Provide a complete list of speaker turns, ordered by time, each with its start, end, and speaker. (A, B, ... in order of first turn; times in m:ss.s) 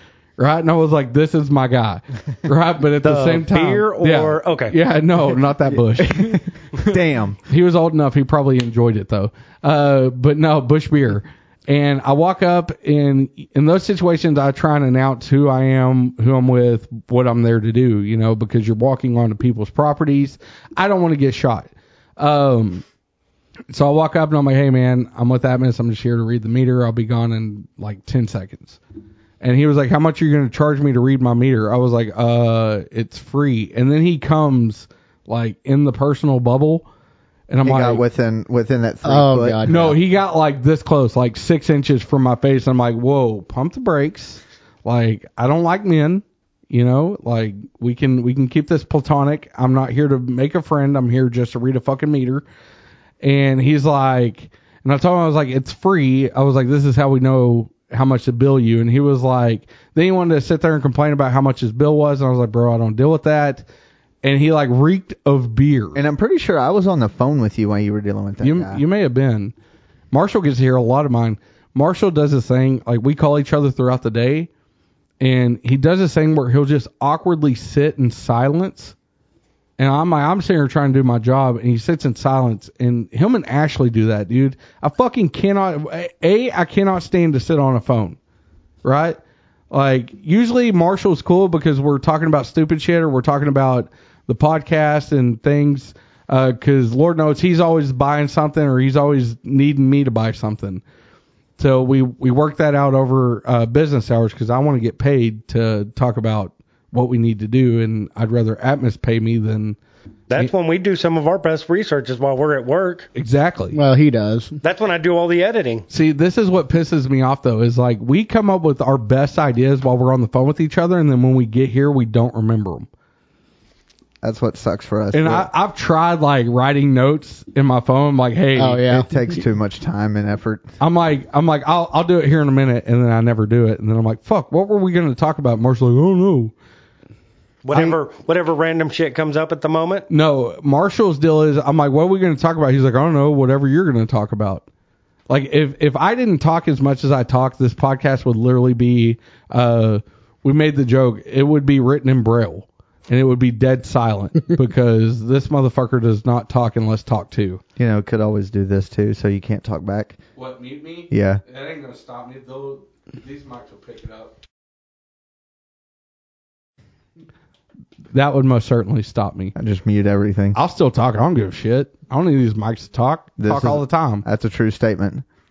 0:00.4-0:22.8 A
0:03.0-0:04.8 B
0:05.7-0:07.4 C
0:23.7-0:28.8 A
0:29.4-0:36.9 A
0:37.5-0:38.0 A
0:37.6-0:40.0 C
0:39.0-0:39.9 D
0:39.7-0:52.4 A
0:53.2-1:03.6 A
1:04.2-1:06.0 A
1:05.9-1:08.8 C
1:08.4-1:09.5 A
1:10.1-1:14.5 A
1:15.2-1:19.0 A
1:19.8-1:28.2 A
1:28.8-1:29.2 A
1:29.7-1:40.8 A
1:41.6-1:49.8 A
1:50.3-1:53.1 B
1:53.2-1:53.8 A
1:53.7-1:54.6 D
1:54.6-1:55.8 B
1:55.9-2:02.9 A
2:04.2-2:05.5 C
2:05.1-2:09.0 A
2:08.6-2:09.1 D
2:08.9-2:10.7 C
2:10.8-2:16.5 A
2:17.6-2:20.1 B
2:20.1-2:24.6 A
2:25.3-2:37.6 A
2:37.8-2:40.2 C
2:40.4-2:44.3 A
2:41.1-2:41.4 C
2:48.1-2:49.6 A
2:49.6-2:50.6 C
2:50.6-2:54.3 A
2:53.4-2:55.2 C